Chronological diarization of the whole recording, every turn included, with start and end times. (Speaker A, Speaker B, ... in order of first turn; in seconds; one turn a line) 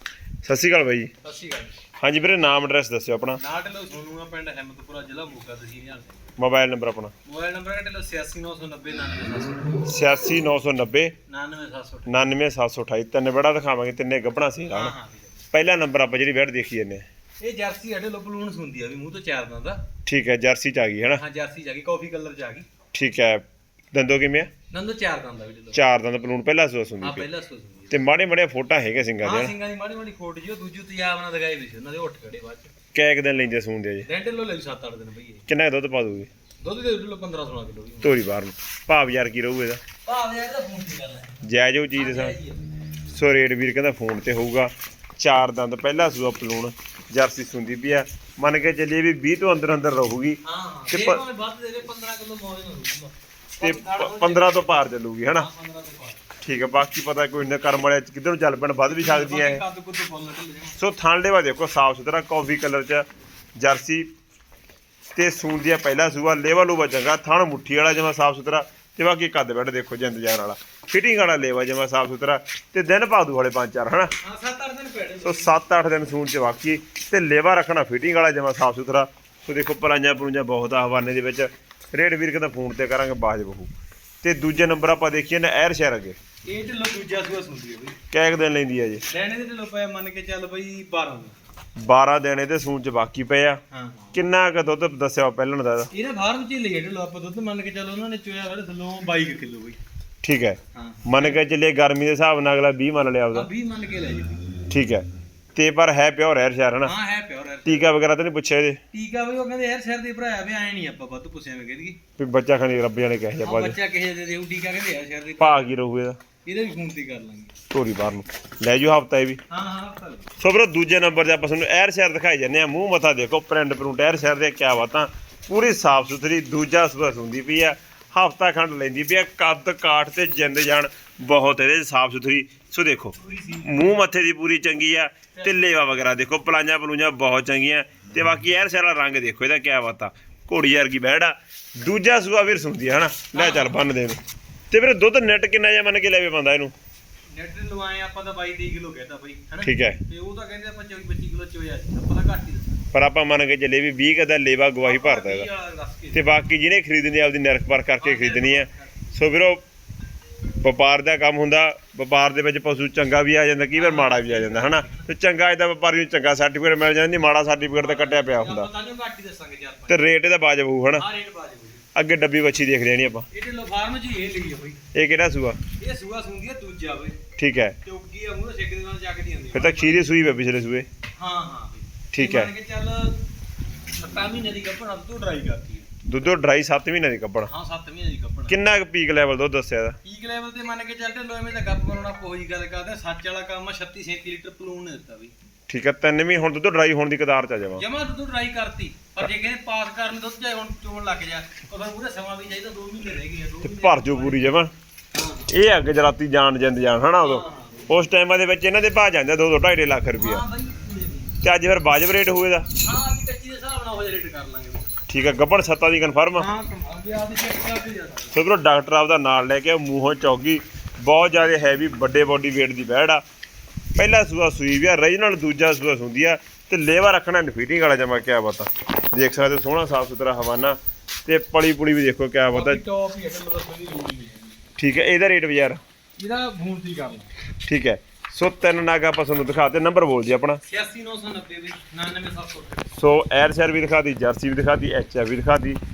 Speaker A: 0.4-1.1
Speaker B: 1.2-1.8
Speaker A: 2.0-3.4
Speaker B: 3.4-6.2
Speaker A: 6.4-7.1
Speaker B: 7.2-9.8
Speaker A: 9.8-11.1
Speaker B: 11.3-12.3
Speaker A: 12.1-14.9
Speaker B: 14.7-15.5
Speaker A: 15.5-17.1
Speaker B: 17.4-19.8
Speaker A: 20.1-21.2
Speaker B: 21.1-22.6
Speaker A: 22.9-24.5
Speaker B: 24.7-25.8
Speaker A: 25.7-27.3
Speaker B: 27.0-28.0
Speaker A: 27.9-29.5
Speaker B: 29.2-32.7
Speaker A: 32.9-34.1
Speaker B: 34.0-35.5
Speaker A: 35.5-36.3
Speaker B: 36.6-38.2
Speaker A: 38.0-39.8
Speaker B: 40.0-42.6
Speaker A: 41.4-42.3
Speaker A: 43.0-51.2
Speaker B: 50.4-56.3
Speaker A: 53.6-55.5
Speaker A: 56.4-59.6
Speaker B: 58.9-60.8
Speaker A: 60.8-63.0
Speaker A: 63.6-64.1
Speaker A: 65.2-74.1
Speaker B: 74.2-75.6
Speaker A: 75.2-86.2
Speaker B: 86.5-88.0
Speaker A: 88.1-89.0
Speaker B: 89.1-91.3
Speaker A: 91.8-93.6
Speaker B: 93.7-94.2
Speaker A: 94.1-95.9
Speaker B: 95.9-99.8
Speaker A: 100.2-103.5
Speaker B: 100.7-101.4
Speaker B: 103.3-104.5
Speaker A: 104.7-106.9
Speaker B: 106.8-107.9
Speaker A: 107.7-108.8
Speaker B: 108.9-112.0
Speaker A: 112.2-113.8
Speaker B: 113.4-115.7
Speaker A: 115.4-116.2
Speaker B: 116.4-117.5
Speaker A: 117.7-119.4
Speaker B: 119.5-120.3
Speaker A: 120.4-144.2
Speaker B: 133.2-134.0
Speaker B: 135.3-136.1
Speaker B: 143.3-143.9
Speaker A: 144.7-146.7
Speaker B: 147.3-152.8
Speaker A: 149.6-150.0
Speaker A: 152.9-155.5
Speaker B: 154.8-156.3
Speaker A: 156.1-159.6
Speaker B: 158.0-159.2
Speaker A: 160.6-168.7
Speaker B: 163.7-165.1
Speaker B: 167.8-170.1
Speaker A: 169.9-171.0
Speaker B: 170.9-171.8
Speaker A: 171.9-173.3
Speaker B: 173.3-174.8
Speaker A: 174.9-175.6
Speaker B: 175.8-177.2
Speaker A: 177.4-177.8
Speaker B: 177.8-180.1
Speaker A: 179.5-180.9
Speaker B: 181.2-183.2
Speaker A: 182.1-182.5
Speaker B: 183.9-185.9
Speaker A: 186.1-187.5
Speaker B: 187.4-188.6
Speaker A: 188.5-190.0
Speaker B: 190.0-195.3
Speaker A: 195.7-197.8
Speaker B: 197.8-204.6
Speaker A: 203.6-204.7
Speaker B: 205.1-205.5
Speaker A: 205.5-210.4
Speaker B: 207.2-207.9
Speaker B: 210.2-211.4
Speaker A: 211.4-212.7
Speaker B: 212.8-214.9
Speaker A: 215.1-216.5
Speaker B: 216.3-218.4
Speaker A: 218.3-223.2
Speaker A: 223.9-232.8
Speaker B: 232.5-234.6
Speaker A: 234.8-235.8
Speaker B: 236.2-237.3
Speaker A: 237.7-240.6
Speaker B: 240.7-242.9
Speaker A: 242.9-245.8